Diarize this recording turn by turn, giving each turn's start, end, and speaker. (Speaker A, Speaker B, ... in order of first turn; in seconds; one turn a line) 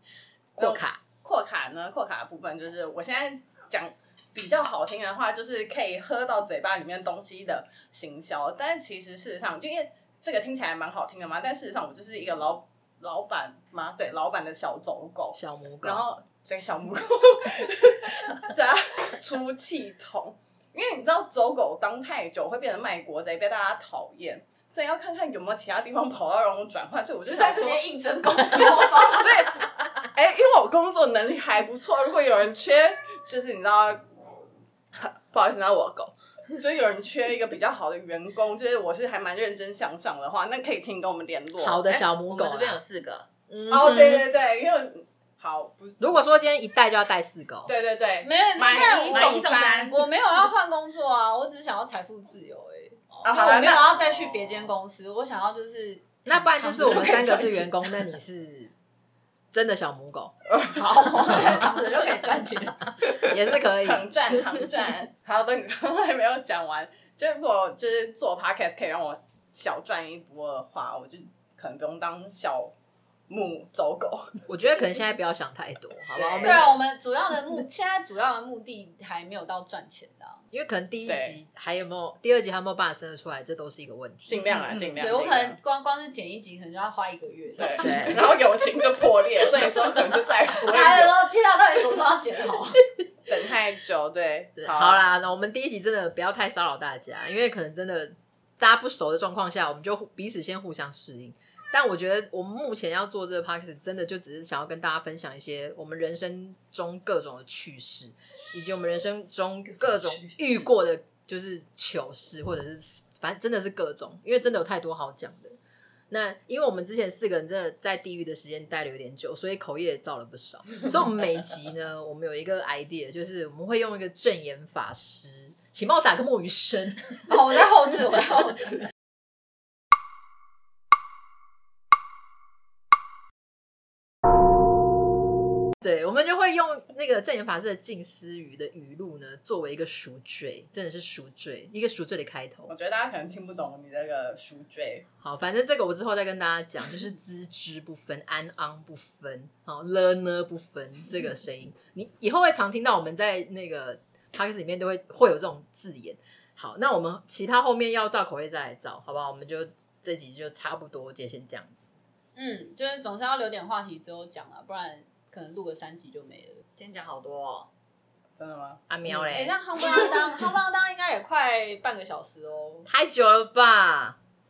Speaker A: 0.6-1.0
Speaker B: 0.6-27.9
Speaker A: 15.3-16.1
Speaker C: 27.2-29.7
Speaker B: 28.7-34.0
Speaker B: 34.9-41.9
Speaker A: 41.5-42.8
Speaker D: 41.8-43.3
Speaker A: 43.5-44.3
Speaker B: 43.7-46.2
Speaker A: 46.0-47.7
Speaker B: 47.6-49.5
Speaker C: 48.2-58.0
Speaker D: 48.7-50.1
Speaker B: 53.2-53.9
Speaker D: 53.9-54.4
Speaker A: 56.2-58.7
Speaker A: 59.5-60.3
Speaker C: 60.6-63.2
Speaker A: 63.0-64.6
Speaker B: 63.8-72.7
Speaker B: 73.3-74.4
Speaker A: 74.5-76.7
Speaker B: 76.1-76.8
Speaker C: 76.4-80.4
Speaker A: 80.5-85.2
Speaker B: 81.1-81.4
Speaker B: 84.3-85.6
Speaker C: 84.9-88.2
Speaker B: 87.6-91.2
Speaker A: 87.6-88.2
Speaker C: 90.6-92.8
Speaker B: 93.3-95.0
Speaker A: 94.6-115.6
Speaker A: 116.1-127.2
Speaker C: 127.3-128.9
Speaker A: 135.8-142.7
Speaker B: 142.7-145.0
Speaker A: 145.2-161.9
Speaker C: 162.3-166.6
Speaker D: 166.8-167.7
Speaker B: 168.3-168.8
Speaker A: 168.9-169.6
Speaker C: 169.1-172.9
Speaker A: 172.8-174.2